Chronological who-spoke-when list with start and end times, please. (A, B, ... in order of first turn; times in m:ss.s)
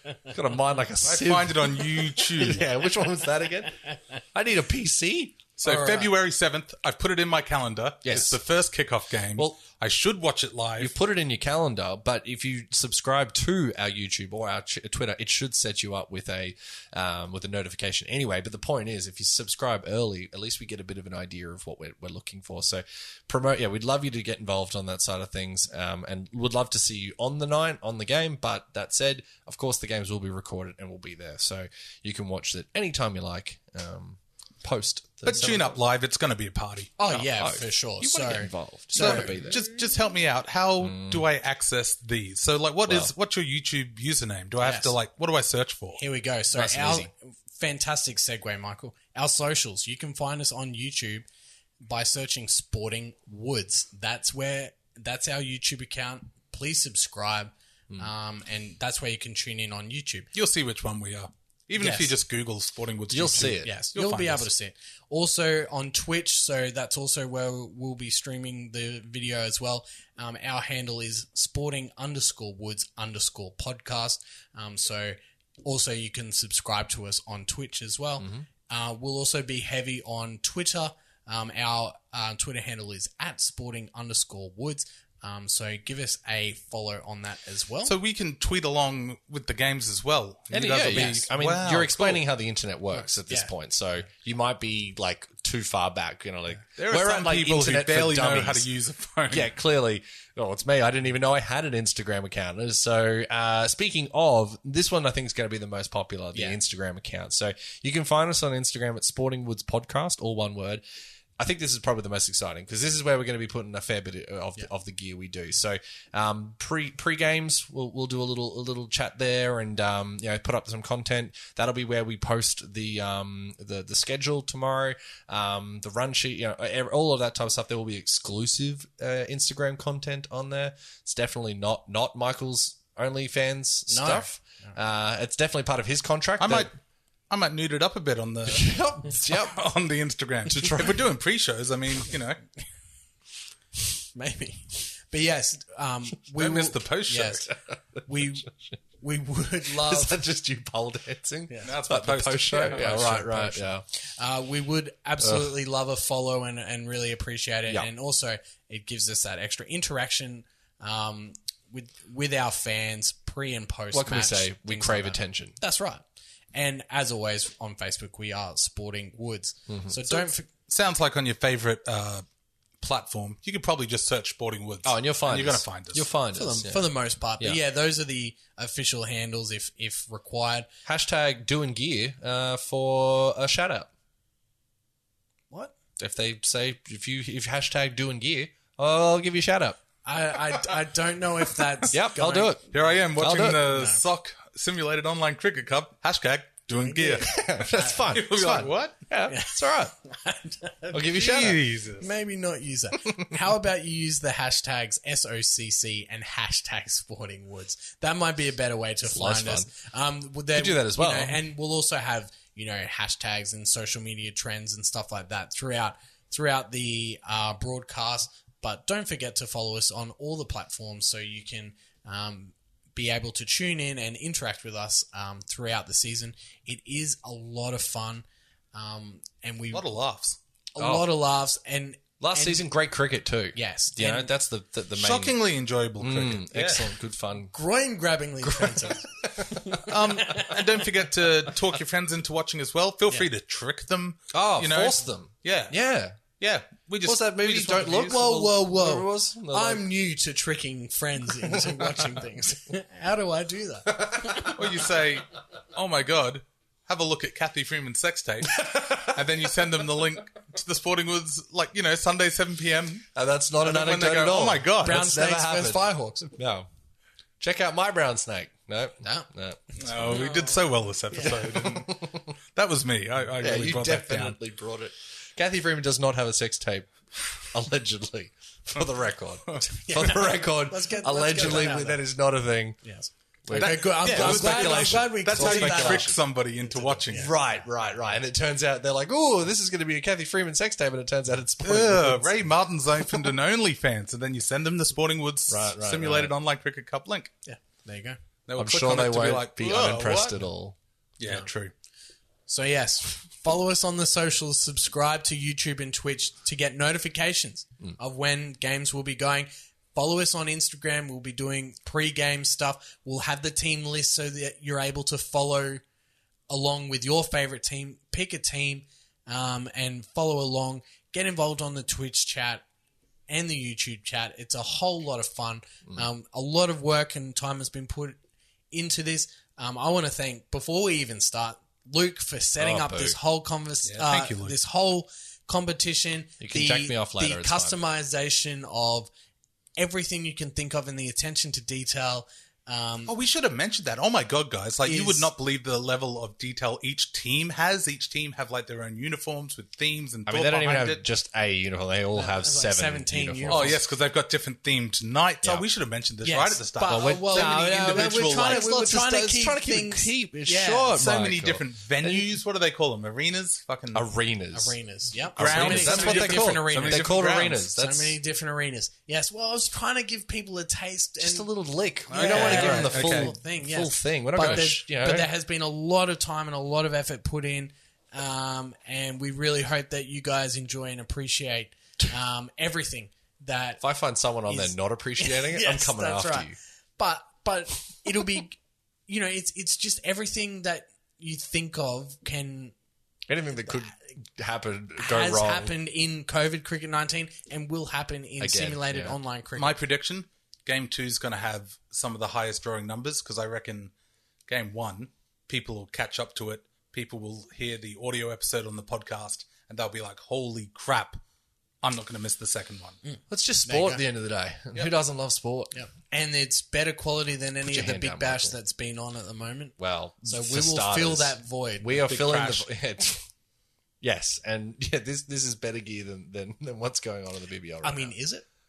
0:00.3-0:05.4 A
0:01.0-0:02.7 B
0:05.6-0:10.9 B
0:05.6-0:06.1 C
0:08.0-0:08.4 A
0:10.8-0:35.8 A
0:35.2-0:36.9 B
0:37.0-0:39.6 C
0:37.1-0:39.6 A
0:38.9-0:46.0 B
0:40.8-0:41.2 A
0:42.9-0:43.1 A
0:44.6-0:44.9 C
0:46.0-0:51.2 C
0:46.5-0:47.1 A
0:51.8-1:00.3 C
1:00.3-1:04.5 B
1:01.8-1:02.2 C
1:03.1-1:03.8 A
1:03.4-1:27.9 C
1:18.2-1:18.5 A
1:27.8-1:32.2 B
1:30.5-1:38.6 A
1:30.9-1:31.2 C
1:32.9-1:33.5 C
1:36.8-1:39.5 B
1:39.3-1:50.8 A
1:46.3-1:46.6 C
1:51.4-2:16.7 A
2:13.9-2:14.7 C
2:16.4-2:16.7 B
2:17.3-2:18.7 B
2:18.4-2:19.6 A
2:19.2-2:22.4 B
2:20.5-2:21.0 A
2:24.1-2:27.5 C
2:26.4-2:27.5 B
2:27.7-2:28.8 A
2:28.0-2:30.2 C
2:29.7-2:33.8 A
2:31.5-2:31.8 C
2:31.6-2:33.1 B
2:32.5-2:50.5 C
2:35.2-2:35.5 A
2:43.9-2:45.6 A
2:49.7-2:50.0 A
2:50.1-2:52.2 B
2:52.8-2:56.1 B
2:54.8-2:57.6 A
2:56.3-3:00.7 C
3:00.8-3:03.9 A
3:06.0-3:09.8 A
3:10.0-3:12.6 C
3:11.9-3:13.7 A
3:12.7-3:17.4 B
3:13.6-3:14.0 C
3:16.8-3:18.1 C
3:17.2-3:19.9 A
3:18.1-3:19.0 B
3:19.3-3:49.9 C
3:20.9-3:21.6 A
3:21.1-3:22.1 B
3:29.0-3:29.7 A
3:30.5-3:31.4 A
3:49.7-3:50.4 B
3:50.7-3:52.6 C
3:50.8-3:51.1 A
3:52.2-3:55.4 A
3:53.5-3:54.3 C
3:54.9-3:56.9 B
3:56.0-3:57.5 A
3:57.4-4:00.6 C
3:58.4-3:59.8 A
3:59.9-4:05.8 B
4:04.3-4:06.2 A
4:06.4-4:08.2 B
4:07.0-4:09.8 A
4:07.9-4:14.6 C
4:11.5-4:12.1 A
4:14.1-4:14.4 A
4:14.5-4:23.0 B
4:18.6-4:19.2 A
4:23.1-4:26.7 A
4:23.6-4:25.0 B
4:24.8-4:26.3 C
4:27.4-4:30.4 A
4:29.0-4:29.3 C
4:29.8-4:34.4 B
4:30.1-4:30.5 C
4:31.1-4:31.6 C
4:31.1-4:32.0 A
4:33.4-4:42.8 A
4:39.5-4:40.2 B
4:39.8-4:42.0 C
4:42.8-4:47.3 C
4:43.5-4:46.2 A
4:43.5-4:47.3 B
4:47.1-4:52.3 A
4:51.6-4:57.3 B
4:55.5-4:56.3 A
4:57.4-4:58.2 C
4:58.5-5:00.4 B
4:58.6-5:00.8 A
5:01.2-5:01.7 B
5:02.5-5:15.8 C
5:16.5-5:22.6 C
5:23.3-5:28.2 C
5:28.7-5:39.1 C
5:32.6-5:33.2 A
5:33.8-5:34.6 B
5:36.4-5:37.8 A
5:39.8-5:43.1 C
5:43.1-5:51.0 B
5:44.8-5:45.3 C
5:50.3-5:53.8 A
5:52.1-5:53.8 C
5:53.5-5:58.6 B
5:56.2-6:01.0 C
5:56.9-6:02.4 A
6:00.9-6:04.1 B
6:03.9-6:04.8 A
6:04.5-6:11.5 C
6:05.4-6:08.2 A
6:05.4-6:07.6 B
6:11.2-6:15.3 A
6:12.1-6:13.3 B
6:12.1-6:23.8 C
6:23.8-6:26.6 A
6:24.5-6:32.7 C
6:33.3-6:35.7 A
6:33.5-6:33.9 C
6:35.0-6:39.8 C
6:38.4-6:39.2 A
6:39.6-6:43.9 B
6:44.5-6:51.2 B
6:51.8-6:53.0 B
6:53.0-6:54.0 C
6:53.3-6:55.7 A
6:55.7-7:02.2 C
6:57.6-6:58.6 A
6:59.8-7:03.3 A
7:02.0-7:02.7 B
7:04.0-7:08.1 A
7:07.8-7:08.4 C